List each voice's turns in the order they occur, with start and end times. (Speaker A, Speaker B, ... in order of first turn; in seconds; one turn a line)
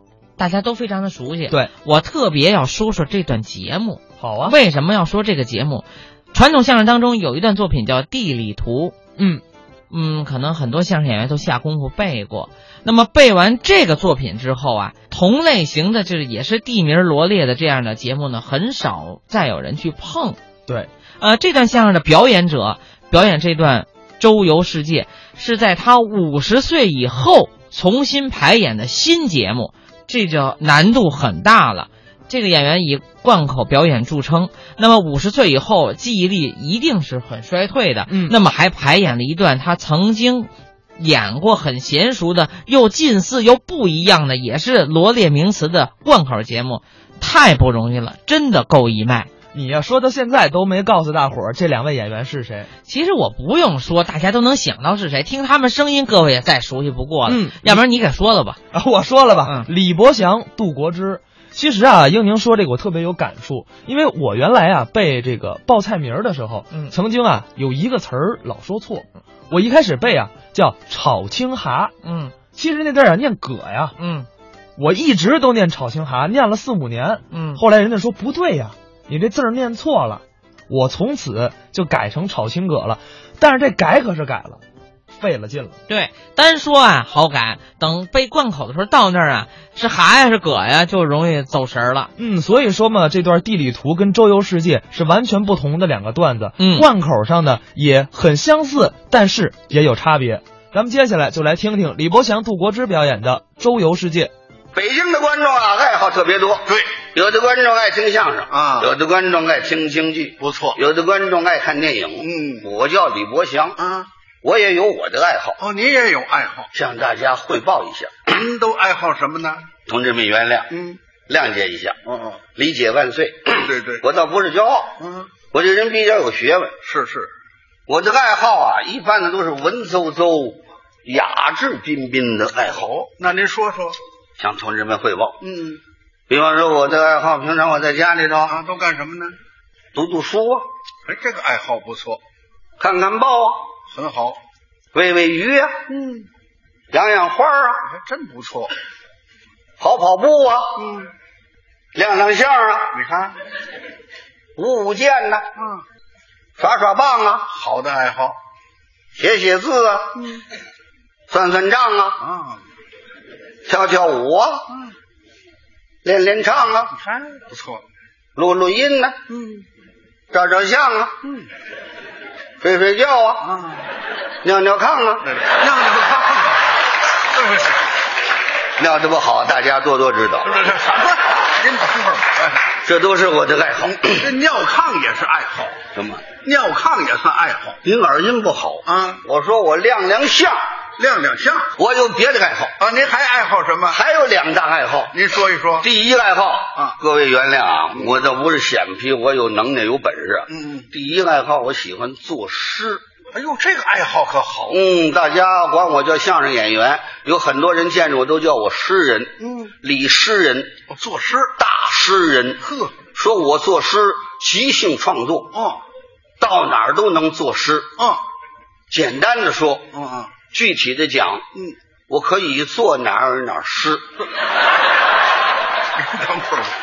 Speaker A: 0.4-8.9
Speaker B: 4.2-4.5
Speaker B: 9.2-9.4
Speaker A: 9.9-20.4
Speaker A: 21.2-49.3
Speaker B: 38.1-38.3
Speaker B: 49.5-52.7
Speaker A: 52.9-58.6
Speaker B: 57.3-57.8
Speaker B: 58.7-71.9
Speaker A: 72.0-72.3
Speaker B: 72.5-74.0
Speaker A: 74.0-74.3
Speaker B: 74.8-84.6
Speaker A: 77.3-77.6
Speaker B: 85.1-85.8
Speaker A: 85.9-92.1
Speaker B: 92.2-104.3
Speaker A: 96.6-96.8
Speaker C: 104.7-113.8
Speaker D: 106.7-107.0
Speaker D: 108.5-108.9
Speaker D: 110.4-110.8
Speaker D: 112.2-112.6
Speaker D: 113.8-114.1
Speaker C: 114.4-115.6
Speaker D: 115.6-116.7
Speaker C: 116.7-118.3
Speaker D: 118.3-119.7
Speaker C: 119.8-120.7
Speaker D: 120.7-121.0
Speaker C: 121.3-122.0
Speaker D: 122.1-122.4
Speaker C: 122.5-124.9
Speaker D: 123.6-124.0
Speaker D: 125.0-125.3
Speaker C: 125.5-126.8
Speaker D: 126.8-127.3
Speaker C: 127.9-132.9
Speaker D: 132.8-134.0
Speaker C: 134.4-135.4
Speaker D: 135.4-135.8
Speaker C: 136.3-138.5
Speaker D: 138.5-139.3
Speaker C: 139.9-140.7
Speaker D: 141.1-142.2
Speaker C: 142.8-143.6
Speaker D: 143.9-144.4
Speaker C: 144.9-145.7
Speaker D: 145.9-146.3
Speaker C: 146.9-147.8
Speaker D: 147.8-148.7
Speaker C: 149.8-150.8
Speaker D: 150.8-151.1
Speaker C: 151.9-152.9
Speaker D: 152.9-153.4
Speaker C: 154.6-155.4
Speaker D: 155.6-155.8
Speaker C: 156.6-157.5
Speaker D: 157.5-158.3
Speaker C: 159.2-160.1
Speaker D: 160.2-160.4
Speaker C: 161.3-162.2
Speaker D: 162.2-162.6
Speaker C: 163.7-164.6
Speaker C: 166.0-166.9
Speaker D: 166.9-167.8
Speaker C: 168.3-169.2
Speaker D: 169.3-169.6
Speaker C: 170.3-171.2
Speaker C: 172.6-173.5
Speaker D: 173.4-173.8
Speaker C: 174.4-175.3
Speaker D: 175.2-176.6
Speaker D: 177.3-177.8
Speaker C: 178.8-180.6
Speaker D: 180.5-182.7
Speaker C: 182.8-184.2
Speaker D: 184.1-185.8
Speaker C: 185.9-186.3
Speaker D: 186.4-187.8
Speaker C: 187.8-190.6
Speaker D: 188.8-189.2
Speaker D: 191.0-191.7
Speaker C: 191.8-192.8
Speaker D: 192.8-194.0
Speaker C: 193.9-195.1
Speaker D: 195.1-195.8
Speaker C: 195.8-203.0
Speaker D: 200.5-200.8
Speaker D: 203.3-204.7
Speaker C: 204.7-210.7
Speaker D: 209.4-209.7
Speaker D: 210.9-211.5
Speaker C: 211.6-212.6
Speaker D: 212.6-213.0
Speaker C: 213.1-215.6
Speaker D: 215.5-215.8
Speaker C: 216.4-217.9
Speaker D: 218.0-218.2
Speaker C: 218.9-219.9
Speaker D: 219.9-220.4
Speaker C: 220.5-221.4
Speaker C: 222.1-224.0
Speaker D: 225.9-226.8